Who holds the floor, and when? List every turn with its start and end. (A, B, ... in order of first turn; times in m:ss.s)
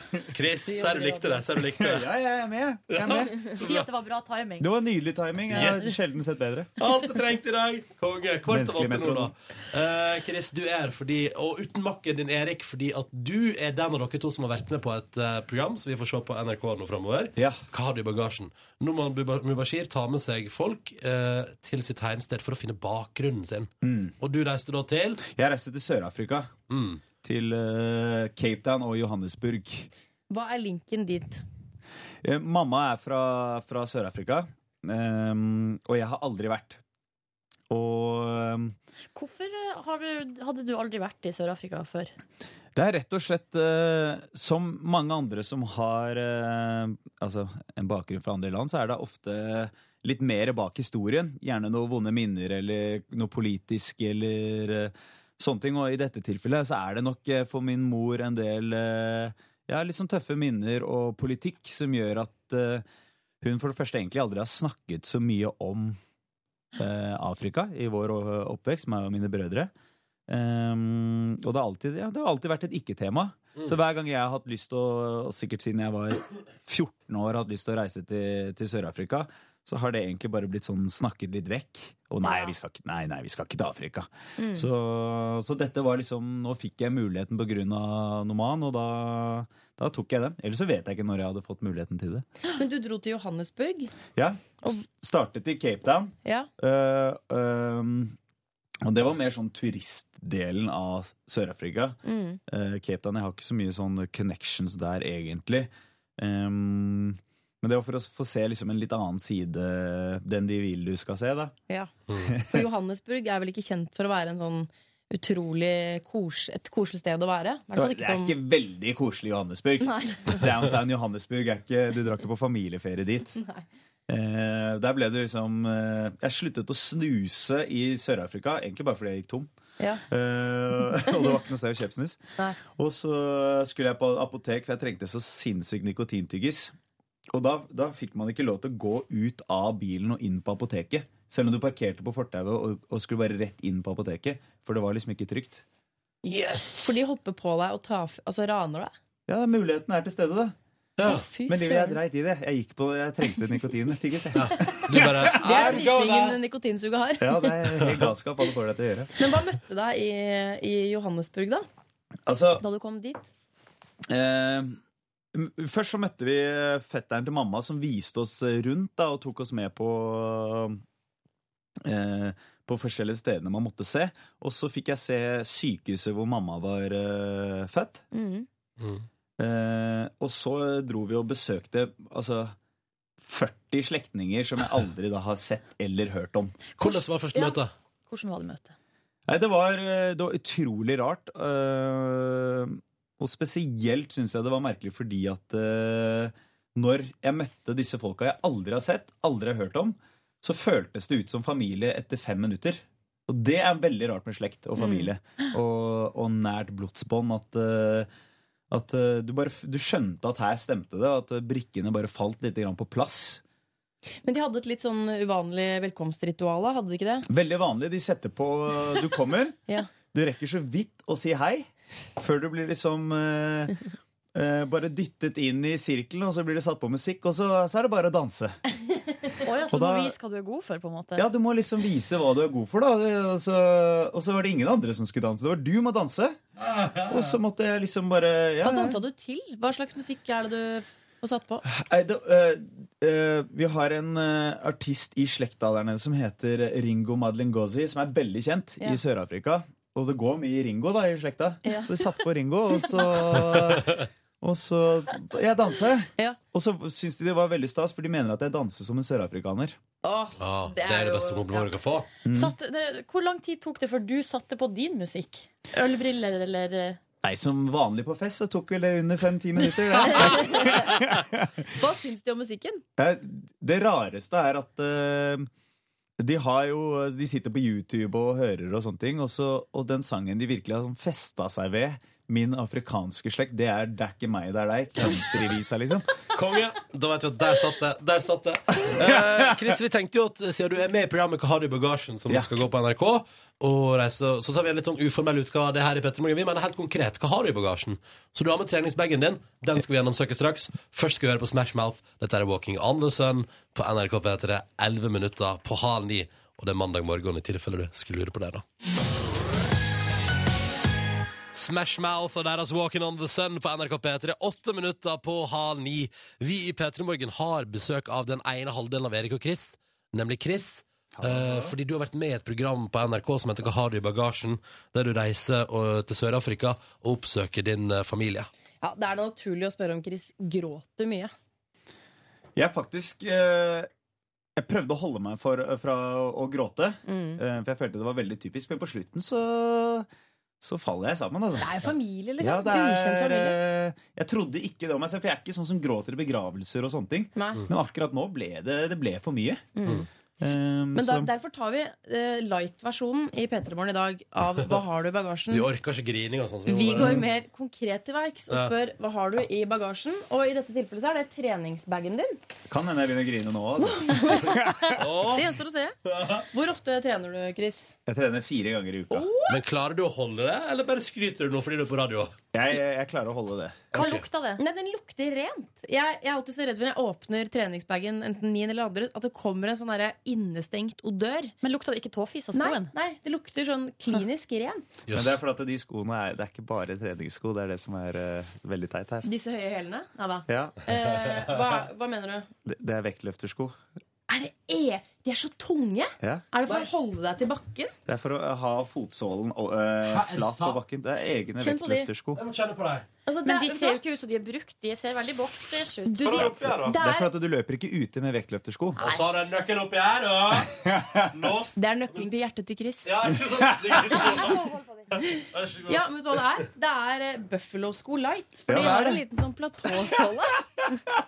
0:00.3-0:02.1 A
0:00.7-0:01.4 B
0:01.7-0:03.4 C
0:02.9-0:03.8 A
0:03.5-0:04.7 D
0:04.6-0:06.7 C
0:05.5-0:05.9 A
0:06.8-0:25.2 A
0:08.5-0:09.3 C
0:23.8-0:24.1 C
0:25.2-0:26.5 C
0:26.7-0:27.0 A
0:27.2-0:29.9 C
0:30.3-0:31.4 B
0:32.2-0:36.8 C
0:37.7-0:38.8 C
0:39.2-0:42.1 D
0:42.8-1:02.8 C
1:03.4-1:06.0 C
1:06.8-1:09.7 C
1:10.3-1:32.3 C
1:24.4-1:24.7 B
1:32.5-1:33.9 B
1:34.2-1:38.2 C
1:36.2-1:36.5 B
1:38.8-1:51.5 C
1:42.0-1:42.4 B
1:52.3-1:52.5 C
1:52.5-1:58.4 B
1:57.7-2:03.3 C
1:59.8-2:00.5 B
2:03.4-2:03.6 B
2:04.1-2:09.5 C
2:10.1-2:16.7 C
2:11.0-2:11.3 B
2:17.3-2:25.6 C
2:26.3-2:26.8 D
2:26.8-2:28.9 B
2:29.3-2:30.6 C
2:31.0-2:31.2 A
2:31.0-2:32.0 B
2:31.5-2:35.8 C
2:34.4-2:36.4 A
2:35.3-2:37.6 B
2:37.2-2:39.1 C
2:37.8-2:38.1 A
2:39.2-2:41.7 B
2:42.3-2:42.6 C
2:42.6-2:43.3 B
2:44.1-2:44.8 C
2:45.3-2:50.8 C
2:51.8-2:58.0 C
2:58.1-2:58.5 B
2:59.4-3:02.6 C
3:03.2-3:06.6 C
3:06.8-3:07.7 A
3:06.8-3:07.6 D
3:08.1-3:08.8 D
3:09.3-3:28.1 C
3:24.8-3:25.1 B
3:28.7-3:33.4 C
3:34.2-3:37.3 B
3:37.3-3:43.8 C
3:44.4-3:48.6 C
3:49.4-3:51.3 D
3:49.7-3:50.1 C
3:51.2-3:56.4 C
3:56.9-3:57.2 A
3:57.0-3:59.0 C
3:58.6-4:01.6 B
4:01.6-4:19.8 C
4:11.6-4:12.1 B
4:20.0-4:21.7 B
4:20.4-4:22.1 A
4:22.2-4:22.6 C
4:22.3-4:27.0 D
4:27.2-4:31.5 C
4:30.0-4:31.0 B
4:31.8-4:32.8 B
4:33.0-4:35.5 C
4:36.2-4:46.1 C
4:46.3-5:08.6 A
4:49.0-4:49.6 C
5:11.5-5:28.5 A
5:21.2-5:21.8 C
5:28.8-5:31.3 B
5:32.6-5:33.9 C
5:34.6-5:40.1 C
5:37.1-5:37.4 B
5:40.6-5:41.8 C
5:41.6-5:43.6 B
5:42.4-5:49.8 C
5:47.4-5:47.6 B
5:49.8-5:50.0 B
5:50.4-5:51.3 C
5:51.0-5:55.7 B
5:55.5-5:57.2 A
5:56.7-6:02.4 B
6:02.7-6:04.9 C
6:03.8-6:06.0 B
6:05.0-6:05.5 A
6:06.1-6:06.4 A
6:06.5-6:07.9 B
6:08.1-6:09.3 C
6:09.1-6:09.6 B
6:09.5-6:12.4 A
6:12.5-6:14.0 C
6:14.0-6:14.2 A
6:14.0-6:14.6 D
6:14.6-6:21.5 B
6:21.6-6:22.9 D
6:22.5-6:24.9 B
6:25.1-6:25.4 A
6:25.1-6:29.3 C
6:29.2-6:32.5 B
6:30.5-6:30.8 C
6:32.7-6:33.8 C
6:34.3-6:37.9 B
6:36.2-6:36.5 C
6:38.1-6:42.4 C
6:40.0-6:40.8 A
6:41.6-6:42.1 B
6:42.4-6:43.0 A
6:43.3-6:44.0 B
6:43.4-6:46.5 D
6:46.1-6:47.3 B
6:46.2-6:47.0 A
6:46.7-6:49.0 C
6:49.0-6:51.8 A
6:50.8-6:51.3 C
6:51.8-6:53.1 B
6:53.0-6:54.6 A
6:53.6-6:54.0 C
6:54.2-6:54.6 B
6:54.3-6:55.0 D
6:55.2-7:01.0 B
6:55.5-6:56.0 A
6:58.7-6:59.2 C